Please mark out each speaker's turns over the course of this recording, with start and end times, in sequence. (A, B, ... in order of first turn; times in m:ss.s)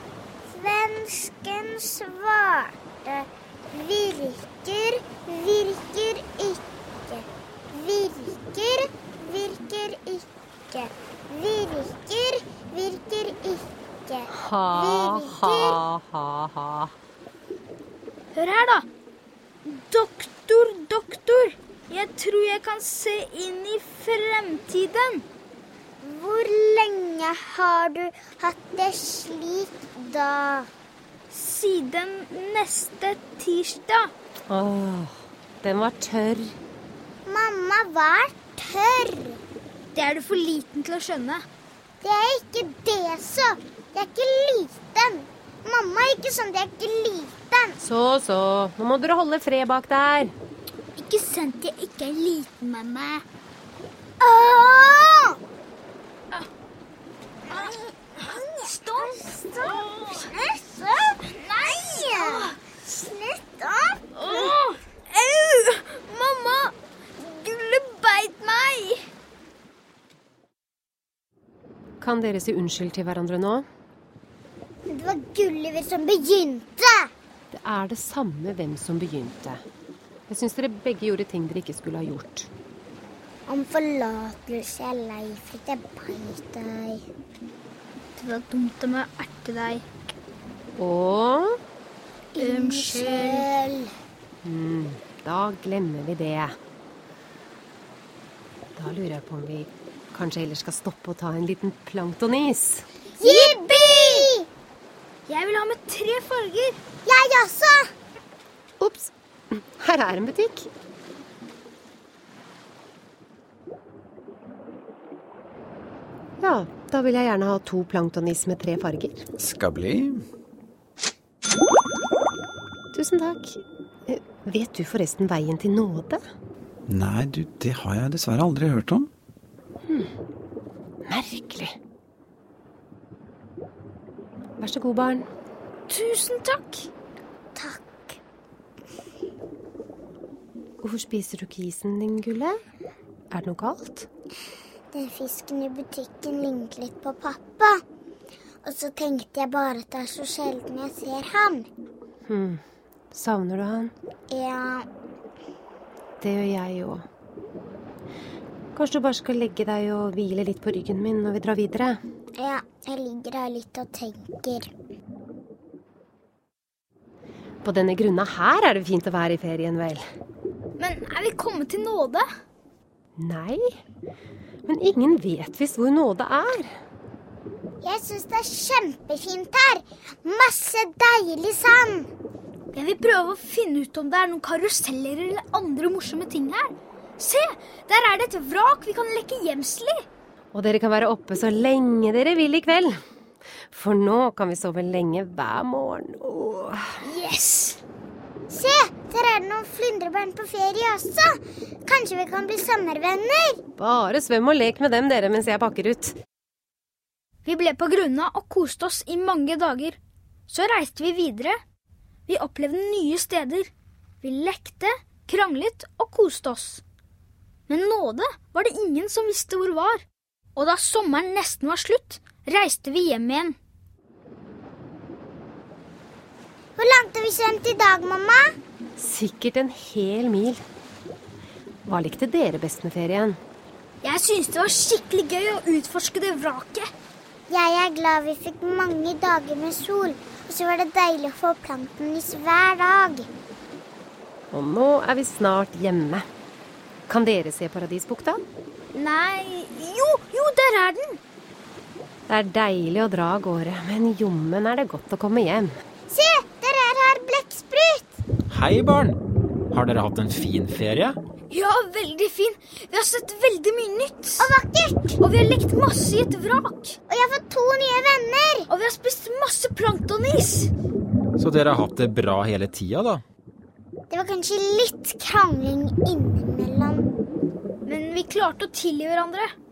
0:00.5-0:15.8 A
0:14.3-0:16.9 B
0:18.3-0:18.9 C
0:19.6-0:25.2 C
0:26.0-0:30.7 A
0:31.3-0:34.1 C
0:34.5-0:36.6 B
0:37.3-0:39.4 A
0:39.9-0:41.4 C
0:42.0-0:47.8 A
0:47.8-0:50.3 B
0:51.0-0:53.2 C
0:54.2-0:55.4 A
0:57.5-1:01.2 A
0:58.6-1:00.3 C
1:01.3-1:02.6 C
1:02.0-1:04.5 A
1:04.2-1:09.1 C
1:12.0-1:13.7 B
1:14.9-1:17.1 A
1:17.5-1:19.6 B
1:20.3-1:22.5 B
1:23.5-1:27.0 A
1:28.2-1:29.8 C
1:30.8-1:31.6 B
1:32.4-1:33.5 C
1:32.4-1:33.9 A
1:34.4-1:36.6 B
1:38.8-1:42.9 B
1:43.2-1:44.5 A
1:43.2-1:44.3 C
1:45.3-1:46.8 C
1:47.1-1:47.9 A
1:48.8-1:50.7 B
1:56.4-1:59.2 B
1:59.4-2:00.2 D
2:02.9-2:06.2 B
2:06.9-2:09.1 D
2:11.0-2:11.8 B
2:14.6-2:15.3 B
2:15.9-2:16.9 C
2:17.6-2:18.2 A
2:20.8-2:22.6 B
2:23.3-2:24.1 B
2:24.9-2:27.8 A
2:28.6-2:31.7 A
2:32.3-2:32.6 B
2:33.1-2:33.9 B
2:34.3-2:34.9 A
2:36.2-2:37.1 B
2:38.8-2:42.0 B
2:42.4-2:44.7 A
2:47.6-2:50.0 B
2:50.8-2:52.3 C
2:53.2-2:53.7 B
2:54.6-2:56.7 B
2:57.8-3:02.1 A
3:02.7-3:10.0 C
3:10.5-3:13.0 B
3:13.7-3:17.0 B
3:17.0-3:17.8 C
3:18.5-3:23.6 A
3:23.8-3:26.2 B
3:27.4-3:31.6 C
3:32.3-3:33.7 C
3:34.2-3:36.8 C
3:37.7-3:40.0 C
3:40.6-3:43.6 C
3:46.8-3:48.4 A
3:49.0-3:50.6 B
3:51.8-3:53.4 B
3:54.0-3:56.9 C
3:57.5-4:03.3 A
4:04.5-4:06.3 B
4:07.1-4:08.4 B
4:08.9-4:11.2 C
4:12.3-4:15.8 B
4:16.1-4:18.1 A
4:18.5-4:19.2 E
4:19.7-4:21.2 E
4:21.5-4:24.5 C
4:24.4-4:25.2 A
4:25.2-4:27.0 C
4:27.1-4:28.7 A
4:28.7-4:30.7 C
4:31.4-4:33.2 E
4:34.1-4:37.1 A
4:37.8-4:39.5 C